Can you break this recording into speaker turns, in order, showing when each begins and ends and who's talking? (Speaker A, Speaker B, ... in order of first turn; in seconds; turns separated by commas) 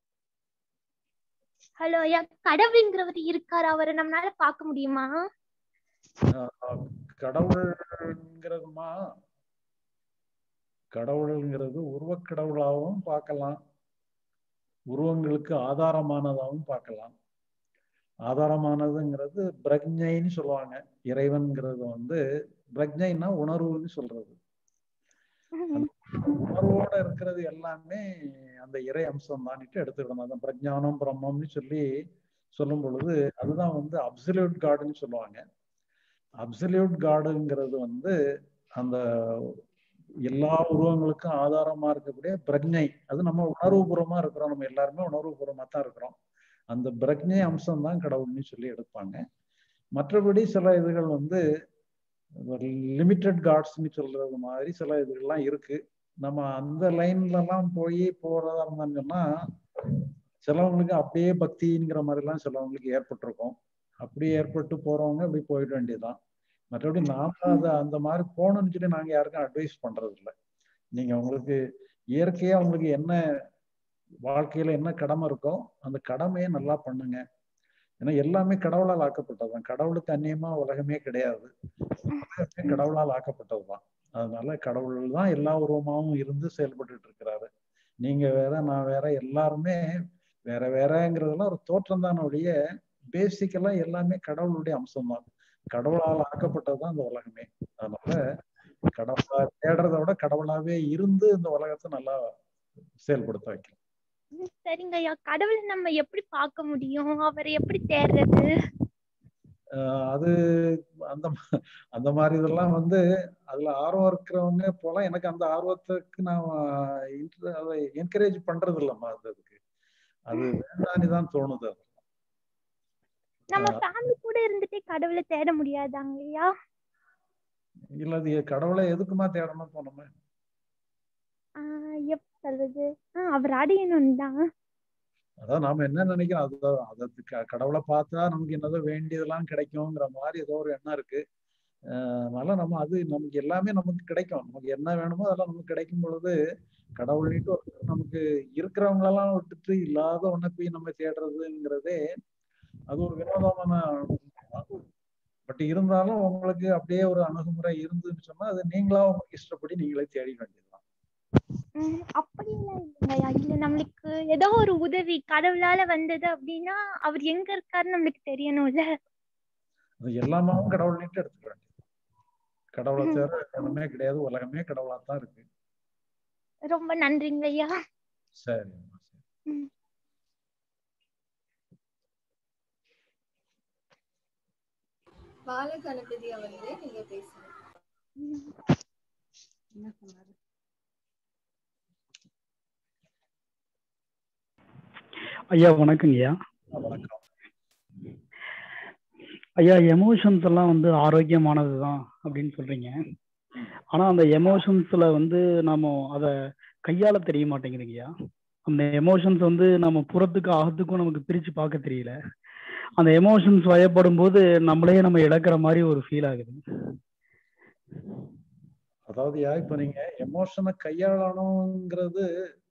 Speaker A: 1.8-5.2, Speaker B: 6.3-9.0, Speaker B: 10.9-13.6, Speaker B: 14.9-17.1, Speaker B: 18.3-22.2, Speaker B: 22.8-24.4, Speaker A: 25.6-25.9, Speaker B: 25.7-31.9, Speaker B: 32.5-35.4, Speaker B: 36.4-38.1, Speaker B: 38.8-39.6, Speaker B: 40.2-46.1, Speaker B: 46.7-49.2, Speaker B: 50.0-51.4, Speaker B: 52.4-59.2, Speaker B: 60.5-66.2, Speaker B: 66.7-70.3, Speaker B: 71.0-71.6, Speaker B: 72.2-73.2, Speaker B: 74.3-77.2, Speaker B: 78.0-81.5, Speaker B: 82.1-87.5, Speaker B: 88.0-89.9, Speaker B: 90.5-92.5, Speaker B: 93.1-98.2, Speaker B: 98.9-102.3, Speaker B: 103.0-103.8, Speaker A: 104.4-108.4, Speaker B: 109.8-119.6, Speaker B: 120.3-122.0, Speaker A: 123.5-126.5, Speaker B: 128.0-130.1, Speaker A: 131.6-134.4, Speaker B: 135.4-141.2, Speaker B: 141.9-146.3, Speaker B: 147.0-152.0, Speaker B: 152.9-154.7, Speaker B: 155.5-160.8, Speaker A: 161.8-168.9, Speaker B: 170.0-171.7, Speaker B: 172.8-175.4, Speaker A: 176.7-177.7, Speaker B: 178.4-179.2, Speaker C: 185.5-187.5, Speaker D: 195.5-196.3, Speaker B: 196.7-197.2, Speaker D: 199.6-203.0, Speaker D: 203.9-206.3, Speaker D: 206.9-208.1, Speaker D: 208.7-212.1, Speaker D: 213.0-216.6, Speaker B: 219.1-222.2